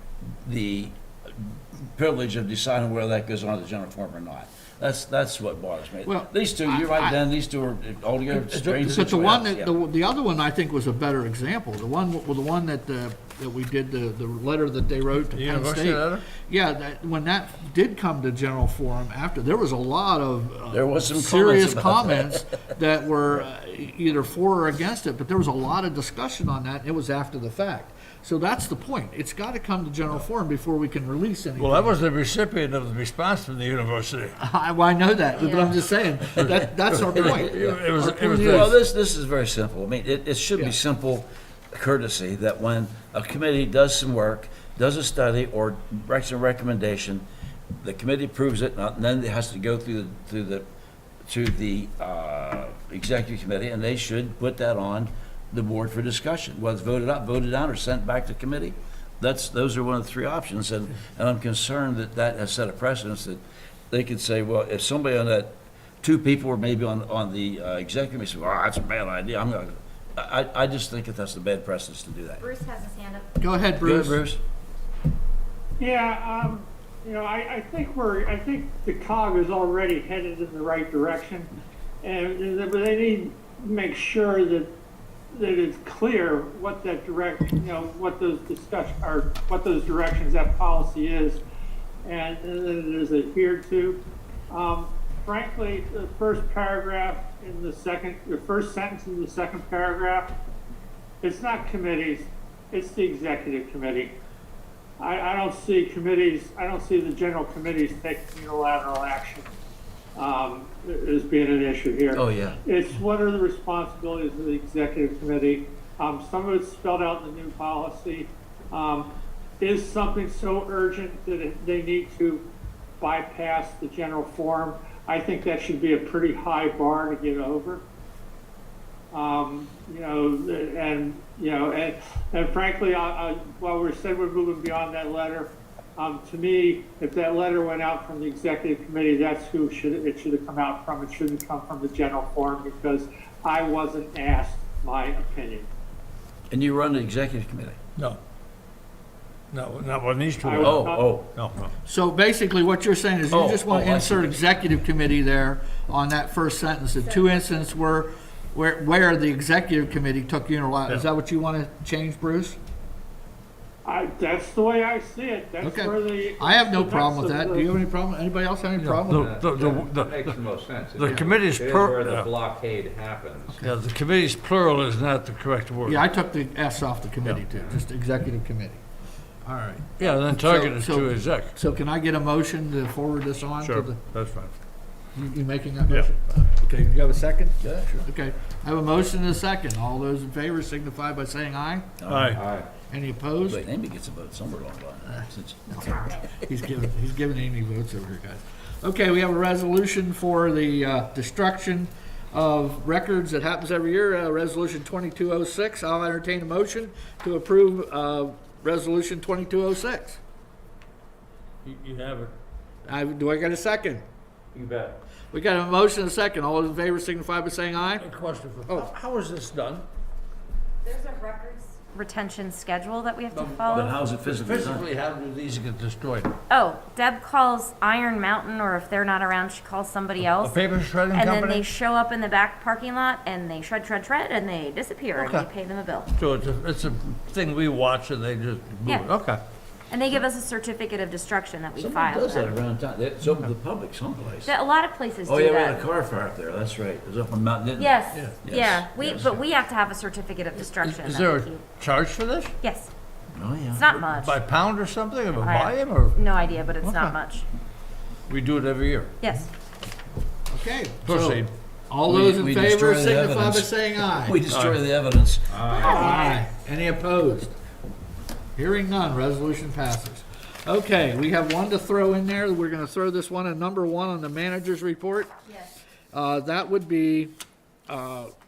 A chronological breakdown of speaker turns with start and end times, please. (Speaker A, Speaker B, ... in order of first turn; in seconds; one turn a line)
Speaker A: 0.4-9.7
Speaker B: 6.0-7.2
Speaker B: 8.4-31.9
Speaker C: 15.3-16.2
Speaker A: 20.7-22.4
Speaker C: 31.6-34.3
Speaker B: 34.4-38.7
Speaker D: 35.4-35.7
Speaker C: 36.9-38.7
Speaker A: 38.4-47.2
Speaker A: 47.8-50.6
Speaker A: 51.3-72.4
Speaker D: 72.5-73.0
Speaker B: 73.4-74.2
Speaker A: 73.8-74.4
Speaker E: 75.8-81.5
Speaker E: 82.0-84.7
Speaker E: 85.3-91.4
Speaker E: 92.0-100.3
Speaker E: 101.2-104.1
Speaker E: 105.0-109.5
Speaker E: 110.2-122.4
Speaker A: 112.1-112.6
Speaker E: 123.0-127.8
Speaker E: 129.1-145.7
Speaker A: 146.5-147.8
Speaker C: 149.5-151.7
Speaker E: 150.5-151.2
Speaker A: 150.6-151.3
Speaker B: 151.8-162.6
Speaker A: 153.3-154.5
Speaker E: 163.8-167.7
Speaker B: 165.6-169.3
Speaker C: 168.8-170.4
Speaker F: 169.1-173.6
Speaker C: 170.9-172.3
Speaker B: 171.0-171.3
Speaker C: 173.6-176.0
Speaker B: 175.8-178.8
Speaker B: 179.4-184.0
Speaker C: 180.0-181.5
Speaker C: 183.6-184.5
Speaker B: 185.1-191.9
Speaker A: 187.6-187.9
Speaker A: 192.0-192.4
Speaker C: 192.1-192.4
Speaker F: 192.3-192.7
Speaker B: 192.9-193.7
Speaker A: 193.5-196.3
Speaker B: 195.2-210.2
Speaker C: 211.6-212.3
Speaker B: 212.8-214.0
Speaker C: 214.5-214.9
Speaker B: 215.3-218.1
Speaker C: 218.0-219.8
Speaker D: 220.8-223.9
Speaker C: 223.3-226.3
Speaker A: 223.7-224.9
Speaker D: 226.5-230.6
Speaker C: 230.3-231.7
Speaker D: 231.1-236.1
Speaker C: 235.1-235.5
Speaker C: 236.1-239.4
Speaker D: 239.9-242.6
Speaker A: 241.8-244.5
Speaker D: 244.4-245.8
Speaker A: 245.2-249.4
Speaker D: 247.8-251.6
Speaker C: 250.6-252.5
Speaker D: 252.6-252.9
Speaker A: 253.3-253.9
Speaker D: 253.7-254.3
Speaker C: 254.0-256.2
Speaker D: 255.4-257.4
Speaker C: 256.8-257.2
Speaker C: 258.3-259.1
Speaker D: 259.2-259.5
Speaker B: 260.5-264.4
Speaker C: 261.1-261.5
Speaker A: 262.1-265.5
Speaker C: 264.5-264.8
Speaker F: 265.5-266.0
Speaker D: 265.7-266.3
Speaker E: 265.9-266.4
Speaker B: 265.9-267.5
Speaker B: 268.6-275.3
Speaker B: 276.1-277.3
Speaker B: 277.9-278.3